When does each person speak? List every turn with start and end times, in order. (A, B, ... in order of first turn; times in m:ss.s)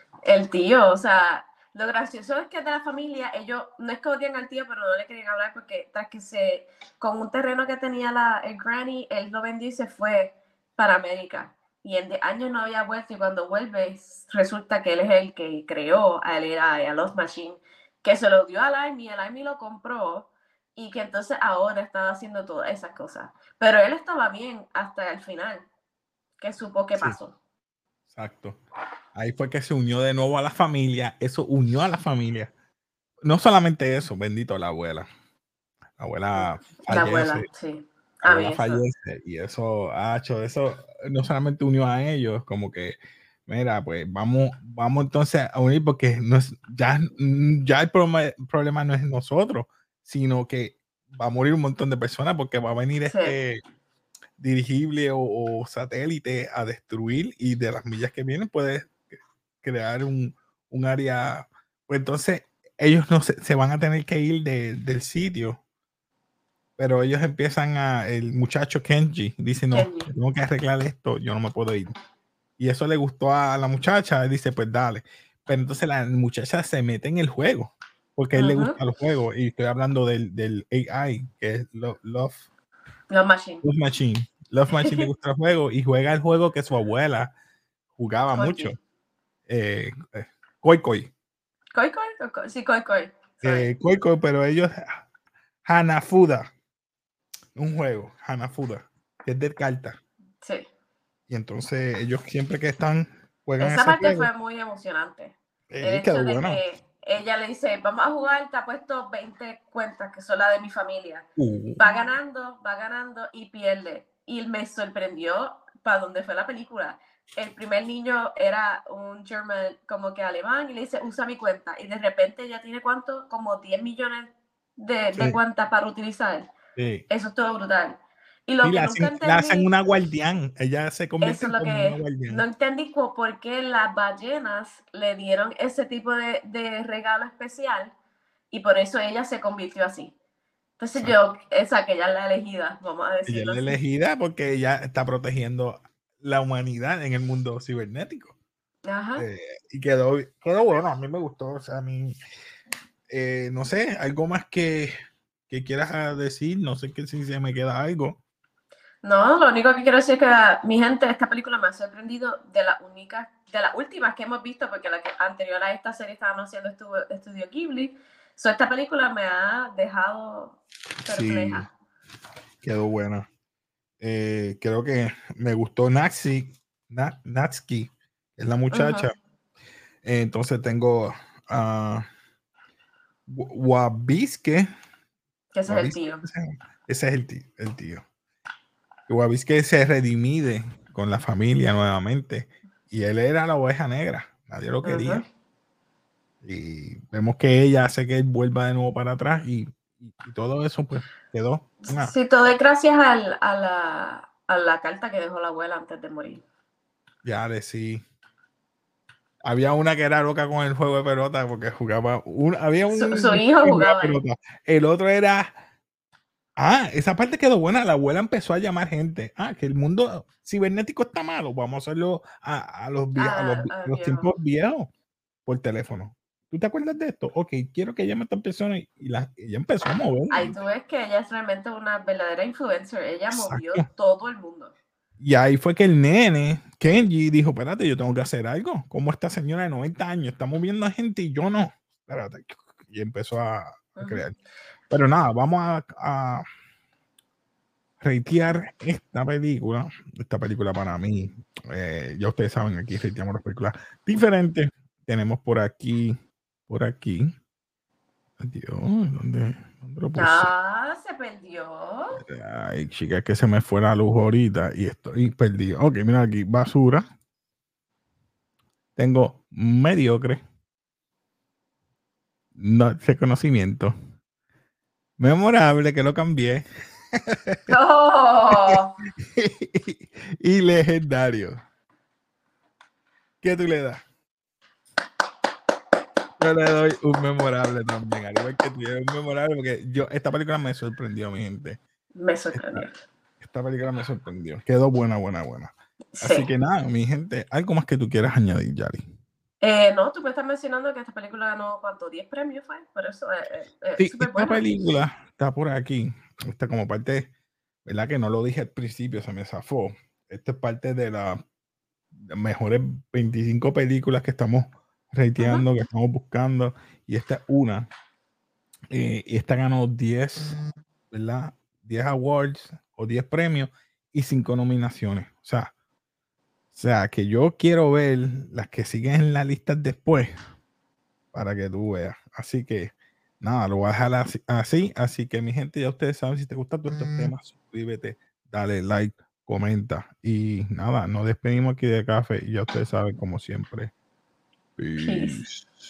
0:00.2-0:25.7 A
0:26.4-0:27.4 A
0:28.1-0:28.6 B
0:29.1-0:32.5 B
0:33.2-0:35.1 B
0:36.0-0:37.5 B
0:36.4-0:38.8 A
0:38.2-0:53.6 B
0:53.0-0:53.4 A
0:54.4-0:59.0 B
0:59.6-1:05.6 B
1:06.8-1:11.9 B
1:09.7-1:10.1 A
1:12.6-1:22.4 B
1:18.3-1:18.8 A
1:23.1-1:23.6 A
1:23.6-1:27.3 B
1:24.7-1:25.1 A
1:28.0-1:28.8 B
1:28.3-1:28.7 A
1:29.5-1:31.1 B
1:31.8-1:33.7 A
1:33.4-1:35.0 B
1:35.6-1:36.5 B
1:37.6-1:40.0 B
1:40.4-1:40.7 A
1:41.3-1:44.3 B
1:43.6-1:51.2 A
1:45.7-1:46.6 B
1:51.4-1:51.8 B
1:51.8-2:06.5 A
2:06.8-2:07.0 B
2:07.1-2:09.7 A
2:08.6-2:12.4 B
2:11.2-2:17.9 A
2:18.5-2:20.1 A
2:20.8-2:23.8 A
2:23.3-2:28.4 B
2:28.8-2:29.2 A
2:29.2-2:32.2 B
2:33.1-2:34.9 B
2:35.5-2:38.2 B
2:39.0-2:51.7 A
2:51.0-2:51.7 B
2:52.6-2:53.3 B
2:54.0-2:59.1 B
2:58.7-2:59.1 A
3:00.0-3:02.0 B
3:03.3-3:04.7 B
3:05.5-3:06.2 A
3:05.6-3:08.0 B
3:09.1-3:15.2 B
3:14.8-3:15.2 A
3:16.4-3:22.2 B
3:21.9-3:26.4 A
3:27.2-3:28.0 B
3:29.4-3:35.6 B
3:32.9-3:34.2 A
3:36.6-3:44.9 B
3:43.2-3:44.3 A
3:45.4-3:50.6 B
3:50.3-3:54.7 A
3:53.3-3:53.8 B
3:55.2-4:04.3 B
4:04.0-4:04.2 A
4:04.9-4:06.4 B
4:08.0-4:16.2 B
4:16.7-4:17.3 B
4:18.4-4:20.5 B
4:20.2-4:22.2 A
4:22.3-4:27.0 B
4:29.0-4:30.4 B
4:32.6-4:33.9 B
4:35.2-4:37.8 B
4:37.7-4:38.9 A
4:38.6-4:41.6 B
4:43.4-4:44.0 B
4:46.4-4:51.8 B
4:52.1-4:52.9 A
4:52.5-4:52.8 B
4:53.4-4:59.0 B
4:56.2-4:56.5 A
4:59.6-5:04.6 A
5:04.0-5:07.3 B
5:07.8-5:11.4 B
5:12.3-5:17.9 B
5:15.4-5:15.7 A
5:18.9-5:20.6 B
5:21.1-5:25.7 B
5:26.7-5:30.4 B
5:31.3-5:43.9 B
5:44.8-5:45.7 B
5:45.0-5:45.4 A